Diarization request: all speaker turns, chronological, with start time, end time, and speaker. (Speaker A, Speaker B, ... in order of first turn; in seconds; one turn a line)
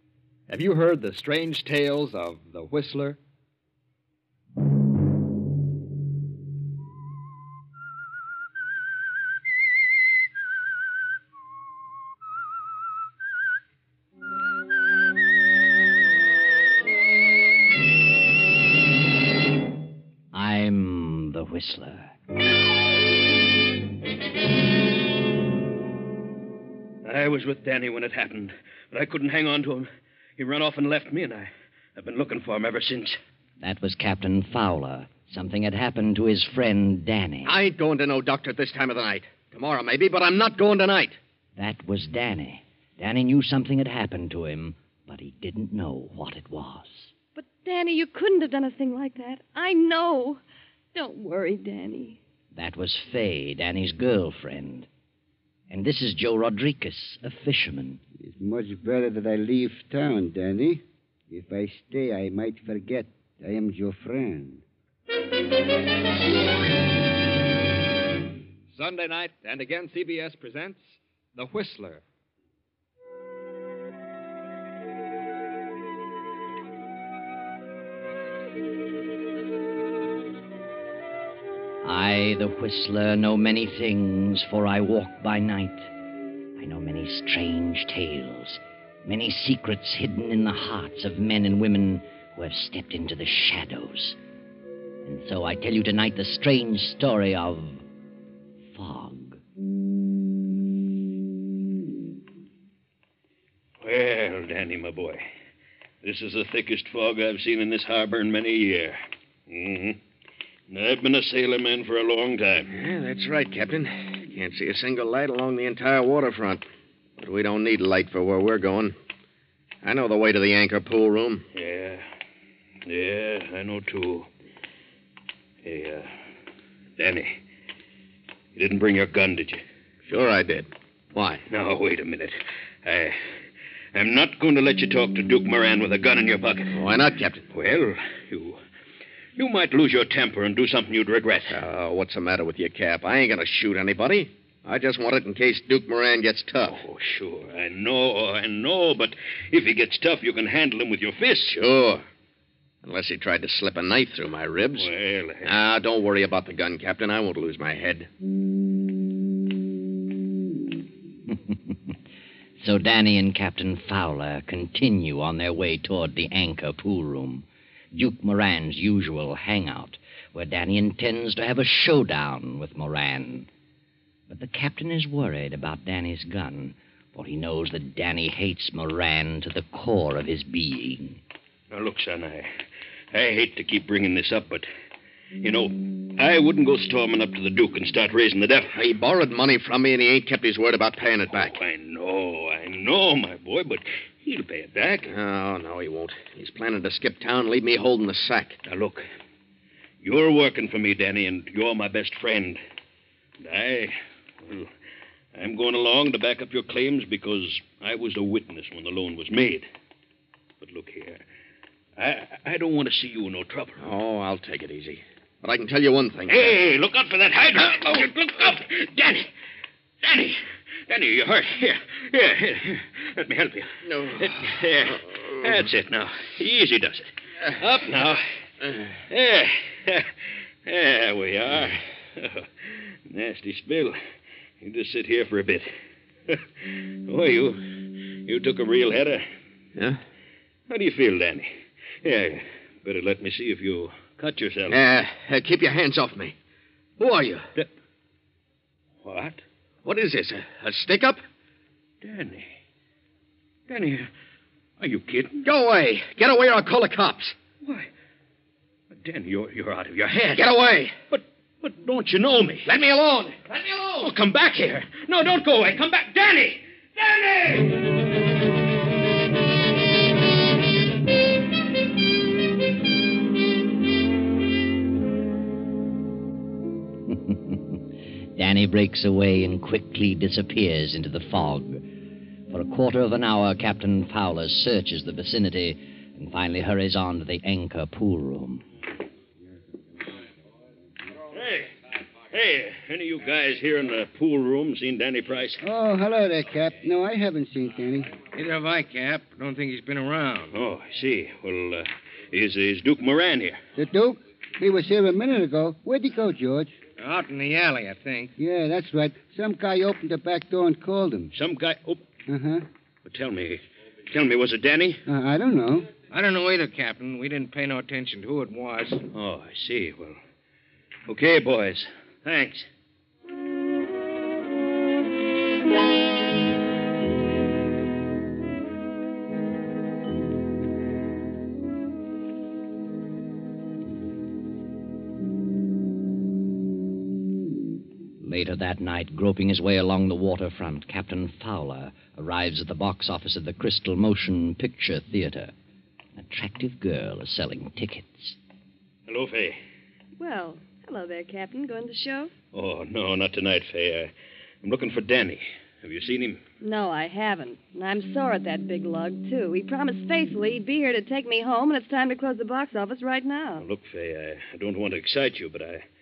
Speaker A: 0.5-3.2
Speaker B: 20.3-22.1
Speaker C: 27.0-33.2
Speaker B: 33.6-37.6
Speaker D: 37.5-41.2
Speaker B: 41.6-47.1
Speaker E: 47.4-50.4
Speaker E: 50.9-52.2
Speaker B: 52.5-54.9
Speaker B: 55.7-58.0
Speaker F: 58.2-64.6
Speaker A: 68.7-72.0
Speaker B: 81.8-85.9
Speaker B: 86.6-94.2
Speaker B: 95.0-97.8
Speaker B: 98.7-99.4
Speaker C: 103.8-105.2
Speaker C: 106.0-110.0
Speaker C: 110.7-112.7
Speaker D: 112.7-116.6
Speaker D: 117.2-119.0
Speaker D: 119.8-121.5
Speaker C: 121.5-122.1
Speaker C: 122.9-124.3
Speaker C: 125.6-126.2
Speaker C: 127.0-127.4
Speaker C: 128.6-129.6
Speaker D: 130.1-131.4
Speaker C: 131.5-133.2
Speaker C: 133.9-136.8
Speaker D: 136.7-137.4
Speaker C: 137.5-138.6
Speaker C: 139.4-141.6
Speaker D: 141.5-146.8
Speaker C: 146.7-151.6
Speaker D: 151.5-152.1
Speaker D: 152.8-154.9
Speaker C: 154.8-155.5
Speaker D: 155.4-158.1
Speaker B: 161.3-161.9
Speaker B: 162.6-173.5
Speaker B: 174.3-181.2
Speaker C: 181.7-182.5
Speaker C: 183.1-184.7
Speaker C: 185.4-188.8
Speaker D: 188.7-191.6
Speaker C: 191.3-195.1
Speaker D: 195.1-198.6
Speaker C: 198.7-199.1
Speaker C: 200.0-202.6
Speaker C: 203.4-204.7
Speaker C: 205.3-209.7
Speaker C: 210.6-211.2
Speaker C: 212.0-213.9
Speaker D: 213.8-216.6
Speaker C: 216.3-219.3
Speaker C: 220.0-228.2
Speaker D: 223.8-225.5
Speaker C: 229.1-230.1
Speaker C: 230.7-234.0
Speaker C: 234.6-235.7
Speaker C: 236.3-239.2
Speaker C: 240.7-241.5
Speaker C: 242.0-244.8
Speaker D: 244.7-246.3
Speaker D: 247.0-247.5
Speaker C: 249.0-249.4
Speaker D: 249.8-251.2
Speaker C: 252.0-252.5
Speaker C: 253.7-254.1
Speaker C: 254.8-255.4
Speaker D: 255.4-257.4
Speaker C: 258.9-260.5
Speaker D: 260.4-260.9
Speaker C: 261.1-262.7
Speaker D: 262.7-264.1
Speaker C: 264.0-267.8
Speaker B: 277.1-277.8
Speaker B: 278.4-281.8
Speaker B: 282.5-288.6
Speaker C: 291.3-291.7
Speaker C: 292.3-295.6
Speaker F: 295.6-298.1
Speaker G: 298.3-300.6
Speaker C: 300.5-303.6
Speaker F: 303.8-306.7
Speaker G: 307.0-308.3
Speaker F: 308.4-311.3
Speaker C: 311.3-312.0
Speaker F: 312.3-312.6
Speaker C: 313.1-315.0
Speaker F: 315.1-315.9
Speaker G: 316.1-319.0
Speaker C: 319.1-320.2
Speaker C: 321.1-322.7
Speaker B: 338.2-345.5
Speaker B: 346.2-348.4
Speaker C: 349.1-349.6
Speaker E: 350.2-352.3
Speaker C: 352.5-354.1
Speaker C: 354.6-356.4
Speaker E: 356.6-363.6
Speaker C: 363.6-365.8